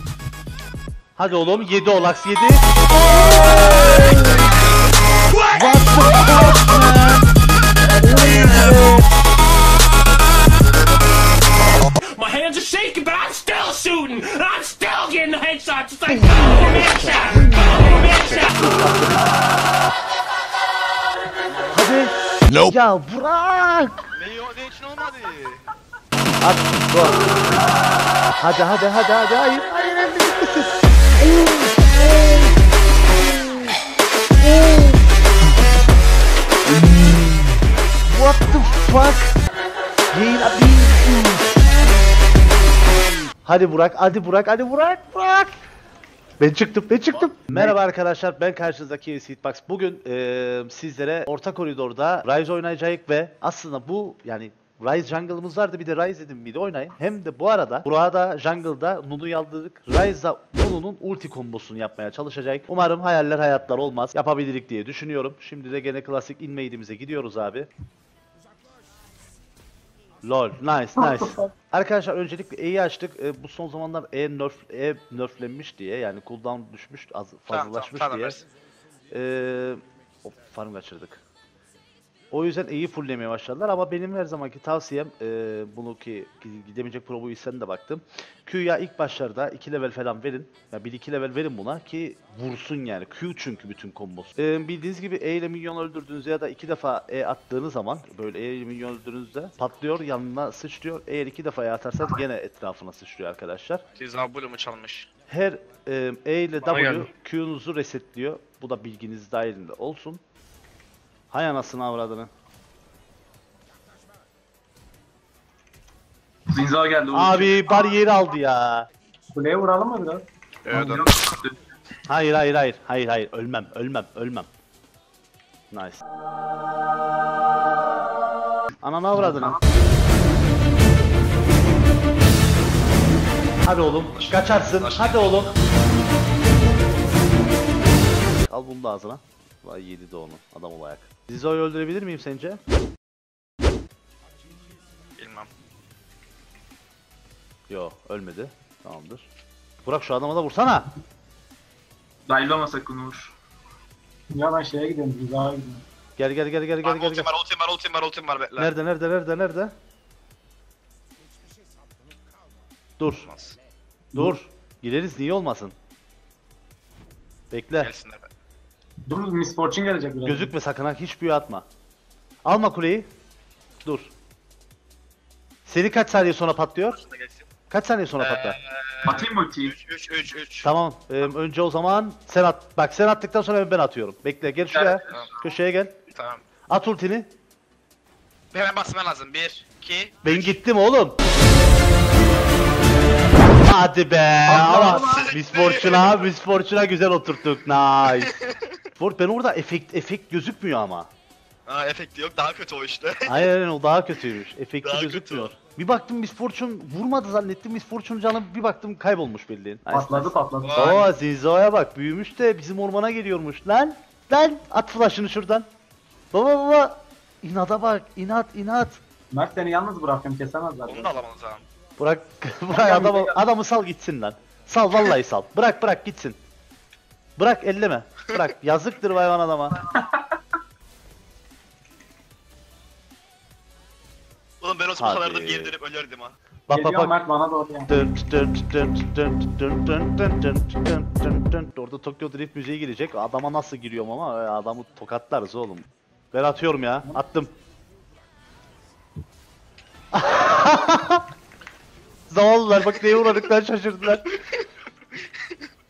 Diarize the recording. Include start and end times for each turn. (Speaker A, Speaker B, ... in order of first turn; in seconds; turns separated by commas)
Speaker A: 1.2-2.6, Speaker A: 3.5-4.5, Speaker B: 4.0-4.5, Speaker C: 5.3-6.5, Speaker A: 5.5-7.3, Speaker A: 8.0-9.1, Speaker C: 8.4-8.8, Speaker C: 12.0-18.5, Speaker A: 16.1-19.3, Speaker B: 21.5-21.8, Speaker A: 21.7-23.9, Speaker B: 24.1-25.7, Speaker A: 26.4-27.2, Speaker A: 28.4-32.5, Speaker A: 33.2-33.8, Speaker A: 34.4-35.0, Speaker A: 36.7-37.5, Speaker A: 38.1-39.4, Speaker A: 40.1-42.0, Speaker A: 43.5-45.5, Speaker A: 46.4-67.7, Speaker A: 70.2-78.4, Speaker D: 71.0-71.5, Speaker B: 77.5-78.5, Speaker A: 79.1-81.2, Speaker A: 82.3-103.8, Speaker B: 104.0-105.1, Speaker A: 105.3-110.2, Speaker A: 111.3-112.3, Speaker E: 116.5-117.7, Speaker A: 117.1-118.9, Speaker D: 119.3-120.3, Speaker B: 120.7-121.3, Speaker E: 120.7-121.5, Speaker A: 122.1-124.5, Speaker A: 125.7-126.0, Speaker A: 128.8-129.6, Speaker D: 129.2-129.6, Speaker A: 133.6-135.5, Speaker B: 134.1-135.5, Speaker A: 138.4-142.6, Speaker B: 145.2-145.5, Speaker A: 147.7-149.3, Speaker A: 149.8-150.9, Speaker E: 152.3-153.3, Speaker D: 154.3-155.8, Speaker A: 156.2-157.3, Speaker B: 156.8-158.7, Speaker A: 158.6-159.7, Speaker A: 163.0-163.3, Speaker B: 163.2-163.6, Speaker A: 164.2-165.7, Speaker A: 167.5-167.9, Speaker B: 167.8-168.3, Speaker D: 169.1-170.5, Speaker A: 170.2-171.7, Speaker A: 172.4-173.1, Speaker A: 173.8-174.1, Speaker A: 175.7-177.0, Speaker B: 176.9-177.5, Speaker A: 177.7-178.6, Speaker B: 178.2-180.7, Speaker D: 179.1-179.7, Speaker A: 180.6-185.9, Speaker B: 184.7-185.3, Speaker B: 186.1-186.4, Speaker A: 186.7-187.3, Speaker B: 188.5-190.6, Speaker A: 190.2-191.2, Speaker A: 193.5-198.3, Speaker D: 194.5-195.2, Speaker B: 194.7-196.3, Speaker B: 198.3-198.7, Speaker A: 199.0-201.1, Speaker B: 201.7-203.5, Speaker A: 203.3-215.7, Speaker B: 204.8-205.5, Speaker D: 209.9-211.1, Speaker B: 210.6-211.0, Speaker A: 216.3-219.0, Speaker D: 219.3-221.1, Speaker B: 220.8-221.6, Speaker A: 222.0-226.4, Speaker D: 222.7-223.4, Speaker A: 227.4-229.8, Speaker D: 229.9-230.4, Speaker B: 234.6-236.3, Speaker A: 235.0-235.7, Speaker A: 236.7-237.2, Speaker D: 236.7-237.9, Speaker A: 237.9-247.5, Speaker A: 250.1-251.2, Speaker A: 252.3-254.2